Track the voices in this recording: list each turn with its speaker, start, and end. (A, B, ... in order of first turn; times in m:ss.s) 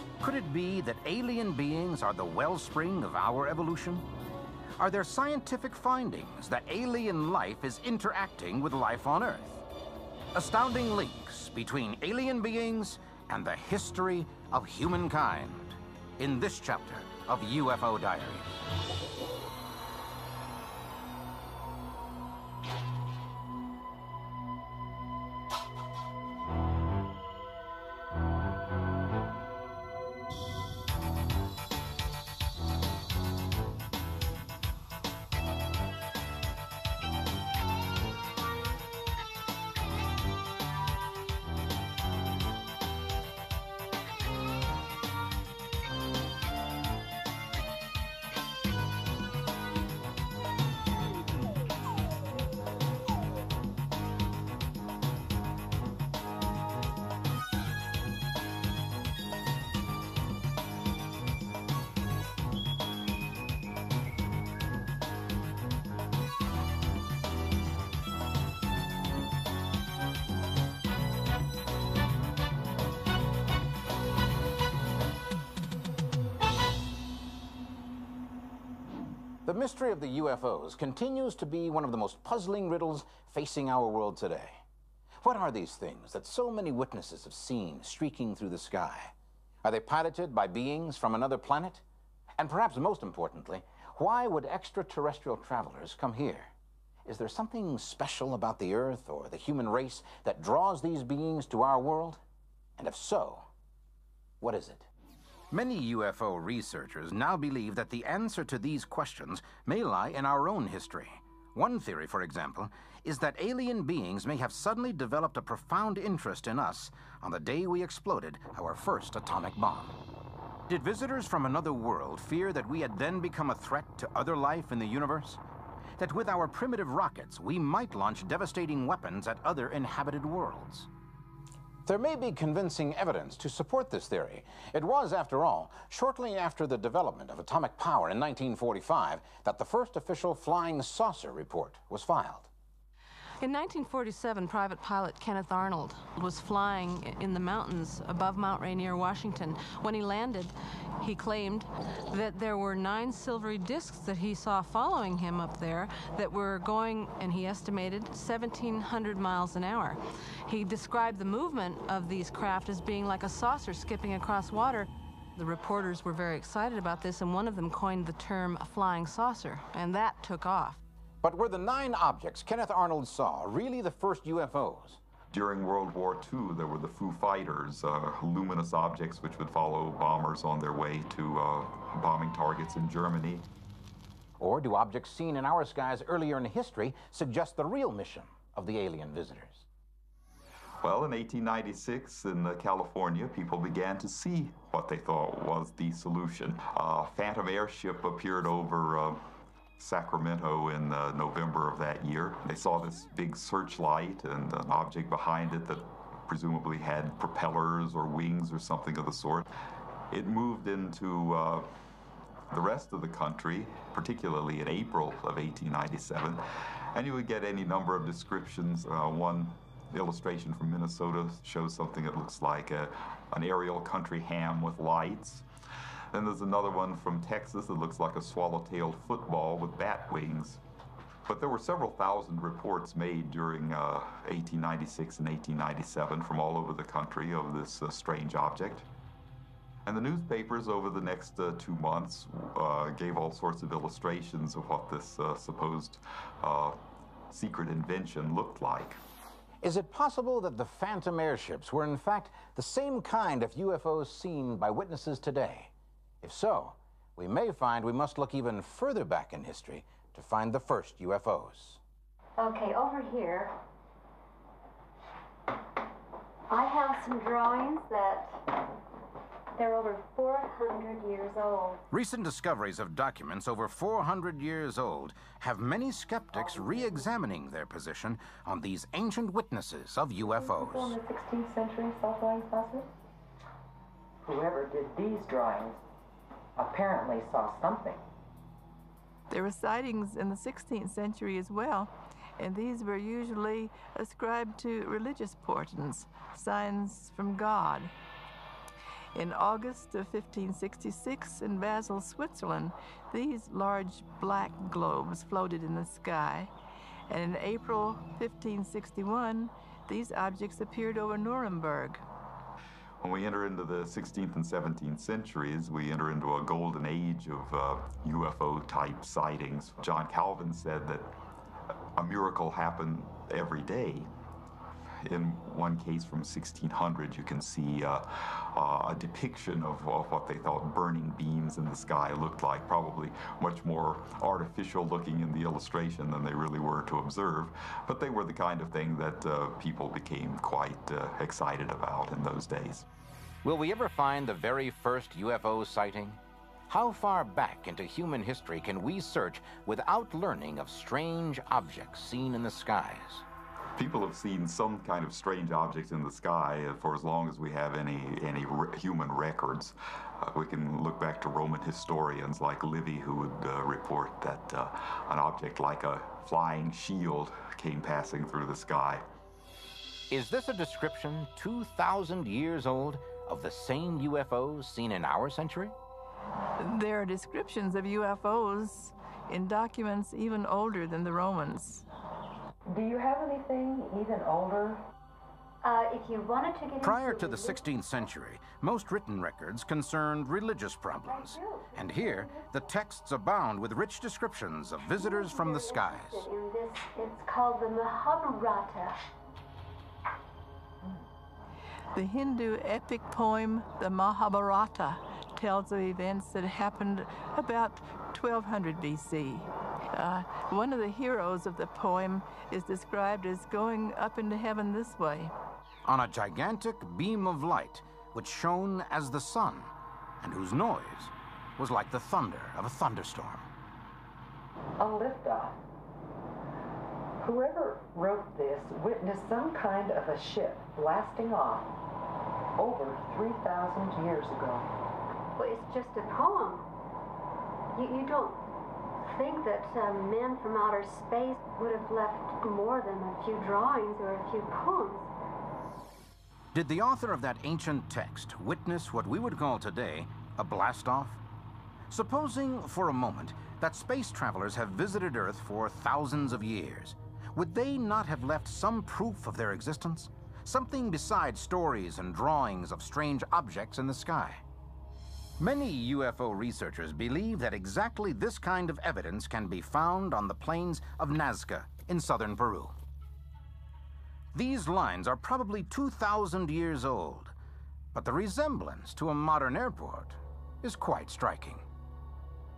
0:00.2-0:04.1 A
0:04.8-0:09.6 A
0:10.3-0:18.6 A
1:19.4-1:24.6 A
1:25.2-1:29.1 A
1:29.6-1:31.8 A
1:32.4-1:36.5 A
1:37.1-1:42.2 A
1:42.8-1:43.5 A
1:44.4-1:44.9 A
1:45.5-2:00.0 A
2:00.7-2:05.4 A
2:06.0-2:10.9 A
2:11.9-2:22.5 A
2:23.4-2:50.8 B
2:51.2-2:55.0 A
2:55.3-3:03.5 C
3:04.4-3:09.7 A
3:10.8-3:19.3 C
3:19.8-3:29.5 C
3:30.1-3:31.7 C
3:32.5-3:45.4 C
3:46.1-3:50.6 C
3:51.3-3:58.9 C
3:59.9-4:09.0 C
4:09.6-4:21.8 A
4:22.4-4:23.6 D
4:26.5-4:28.4 D
4:29.6-4:31.8 D
4:31.9-4:41.0 A
4:36.3-4:37.1 E
4:40.2-4:42.9 E
4:44.2-4:45.8 E
4:46.6-4:48.0 E
4:49.3-4:57.9 F
4:59.2-5:06.5 F
5:07.1-5:12.0 F
5:13.0-5:21.2 C
5:22.0-5:24.1 C
5:25.0-5:42.8 C
5:43.4-5:53.3 A
5:53.8-6:09.1 C
6:10.1-6:15.8 A
6:16.6-6:21.8 F
6:22.7-6:24.8 E
6:25.6-6:27.7 D
6:26.8-6:36.3 A
6:31.1-6:32.5 D
6:35.0-6:39.0 D
6:41.9-6:55.3 F
6:55.9-7:03.5 A
7:04.8-7:05.6 E
7:07.2-7:11.8 E
7:12.6-7:14.7 E
7:15.4-7:16.7 D
7:17.7-7:18.5 D
7:19.1-7:25.1 D
7:26.5-7:31.2 A
7:31.9-7:44.4 A
7:45.4-7:52.8 A
7:54.3-7:57.3 A
7:57.9-8:01.6 A